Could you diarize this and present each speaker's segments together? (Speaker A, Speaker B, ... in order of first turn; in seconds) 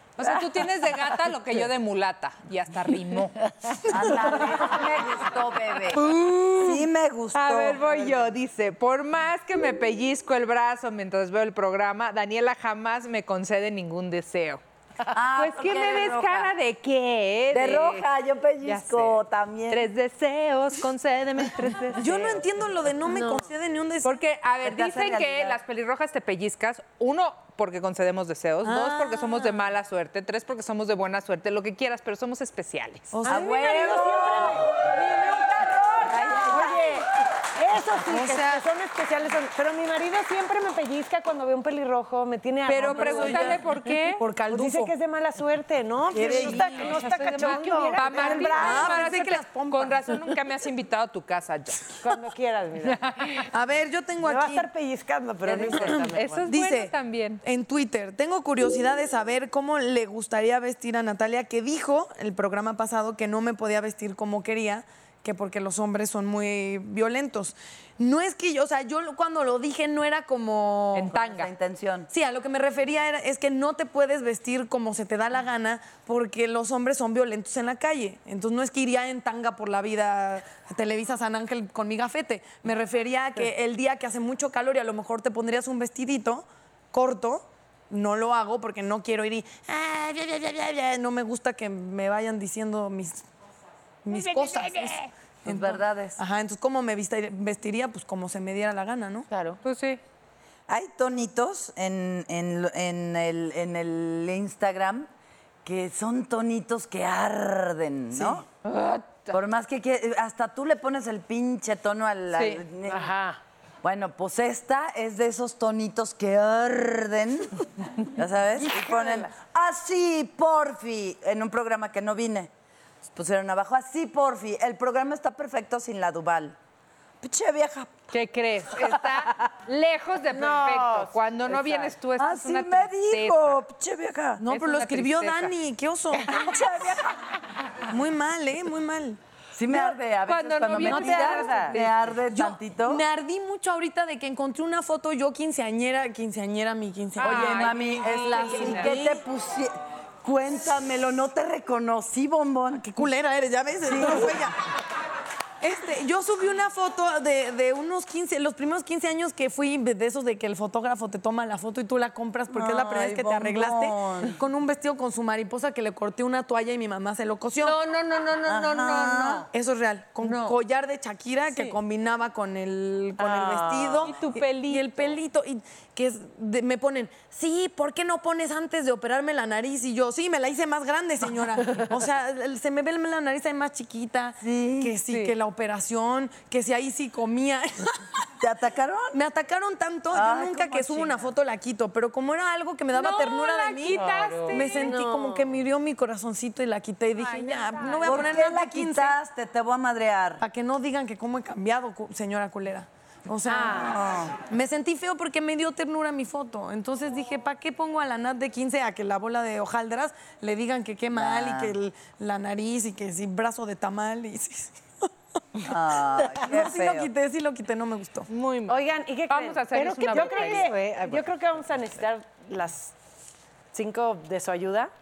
Speaker A: 0.2-4.6, 7.3-18.1, 18.6-22.4, 24.0-33.1, 42.6-44.2, 46.3-52.0, 52.8-53.5, 55.4-57.4, 70.9-71.5, 99.6-100.0, 108.7-109.3, 112.3-112.6, 128.1-133.6, 134.5-135.5, 140.2-142.0, 147.2-149.2, 167.6-169.5, 170.2-170.6, 173.3-175.1, 185.1-185.3, 192.9-195.0, 197.2-198.2, 218.3-220.7
Speaker B: 3.9-8.0, 15.1-16.5, 17.5-19.9, 24.6-25.6, 33.3-36.8, 71.1-72.1, 95.5-96.2, 100.7-105.1, 105.6-108.5, 109.3-113.1, 113.8-122.5, 123.1-126.6, 127.2-128.1, 132.1-134.4, 136.3-137.1, 139.5-143.0, 147.2-153.1, 153.8-154.5, 162.5-164.4, 168.4-169.5, 184.4-185.0, 188.4-189.2, 190.1-191.3, 198.0-200.4, 203.7-204.3, 211.1-211.8, 215.6-217.1
Speaker C: 21.9-24.2, 28.6-29.7, 33.1-33.9, 38.0-38.6, 42.8-43.7, 44.2-44.9, 46.1-50.4, 53.4-54.7, 55.7-71.1, 72.1-93.2, 94.0-99.3, 108.1-108.4, 134.4-137.0, 137.9-139.2, 142.3-149.2, 152.8-154.6, 155.6-167.8, 169.5-188.3, 189.1-199.1, 200.4-218.3
Speaker D: 33.2-34.7, 36.1-43.7, 44.5-49.1, 52.0-53.4, 54.2-56.5, 194.4-195.4, 218.7-222.9, 223.7-224.9
Speaker E: 94.1-94.8, 99.3-99.6, 112.9-113.4, 130.3-130.9, 140.9-141.7, 220.1-221.2